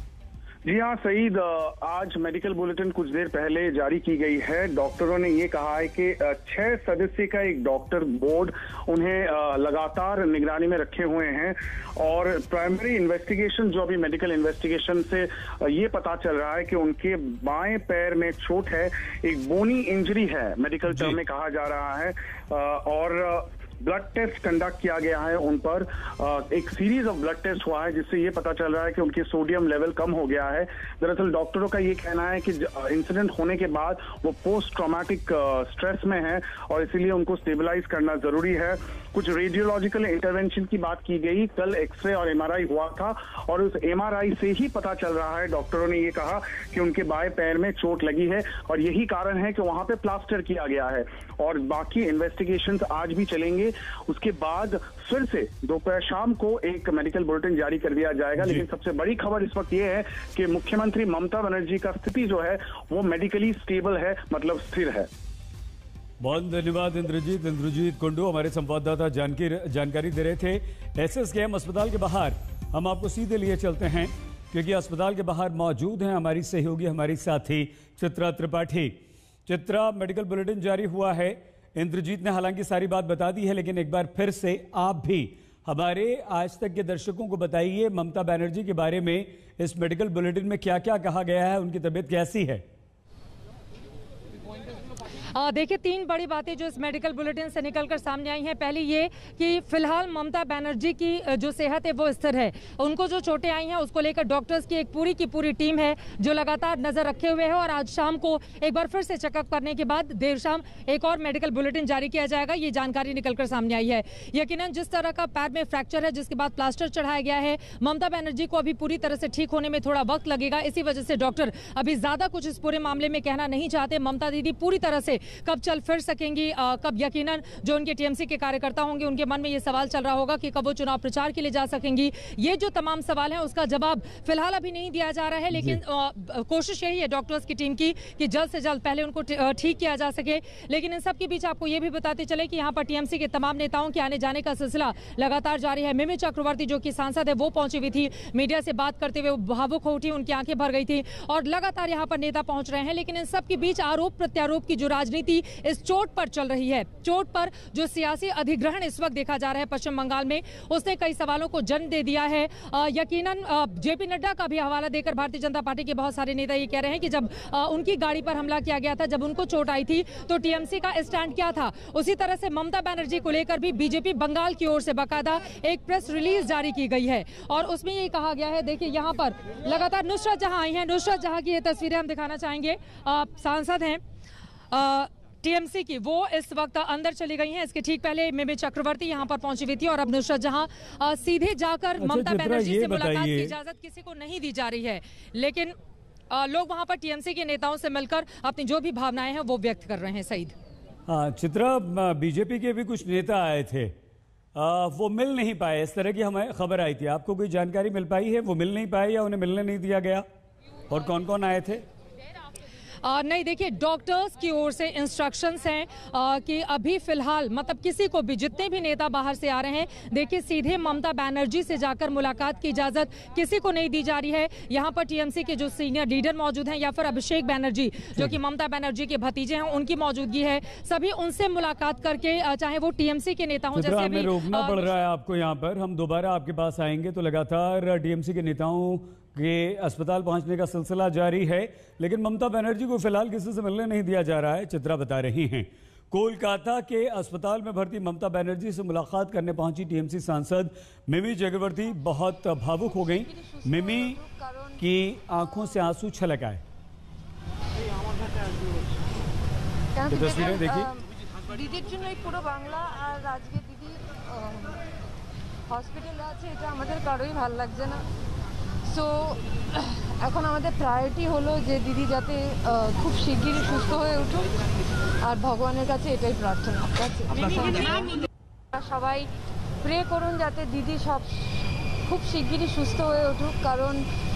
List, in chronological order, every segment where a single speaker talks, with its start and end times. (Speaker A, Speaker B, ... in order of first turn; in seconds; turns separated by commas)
Speaker A: 0.7-65.1, Speaker B: 20.9-21.2, Speaker B: 58.4-58.7, Speaker B: 66.2-92.6, Speaker C: 95.3-184.0, Speaker B: 135.5-135.8, Speaker C: 184.7-195.8, Speaker B: 192.0-193.5, Speaker C: 196.3-200.5, Speaker B: 201.1-203.9, Speaker B: 204.6-210.3, Speaker B: 210.9-211.8, Speaker C: 213.0-234.9, Speaker B: 233.8-254.2, Speaker D: 252.9-254.8, Speaker B: 254.8-256.6, Speaker D: 259.9-264.9, Speaker B: 260.1-260.9, Speaker D: 265.7-268.0, Speaker D: 268.9-274.5, Speaker D: 275.2-278.2, Speaker D: 278.7-279.3, Speaker D: 279.8-284.1